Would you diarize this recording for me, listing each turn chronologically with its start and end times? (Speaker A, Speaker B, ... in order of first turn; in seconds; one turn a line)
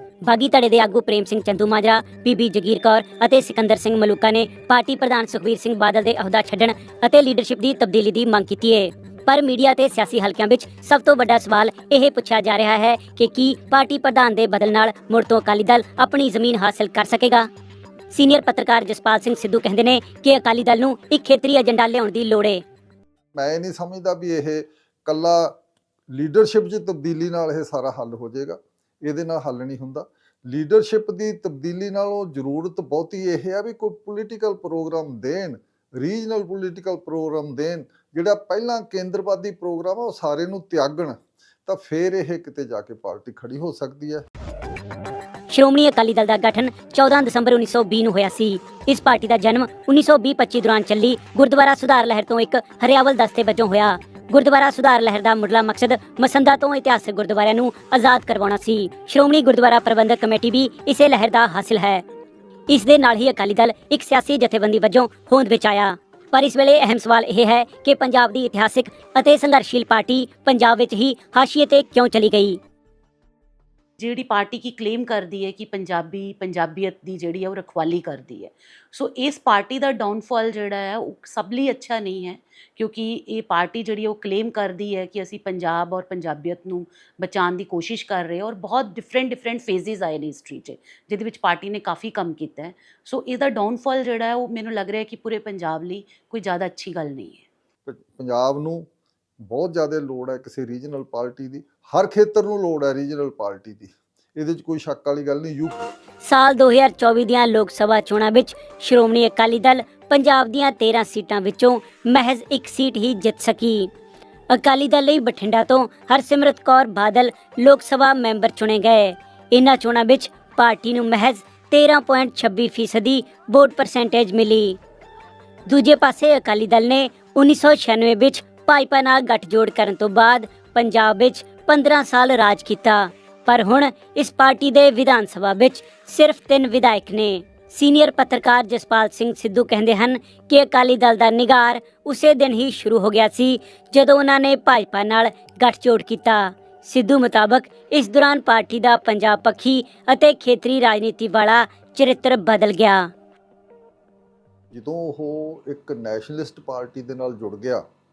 Speaker A: 0.2-17.5
Speaker A: 18.1-22.6
Speaker B: 23.3-25.5
Speaker B: 26.1-44.2
Speaker A: 45.5-62.0
Speaker A: 62.7-72.6
Speaker C: 74.0-97.5
Speaker B: 97.8-98.8
Speaker B: 99.4-105.8
Speaker A: 106.2-113.9
Speaker A: 114.5-124.8
Speaker A: 125.7-153.1
Speaker B: 154.7-157.8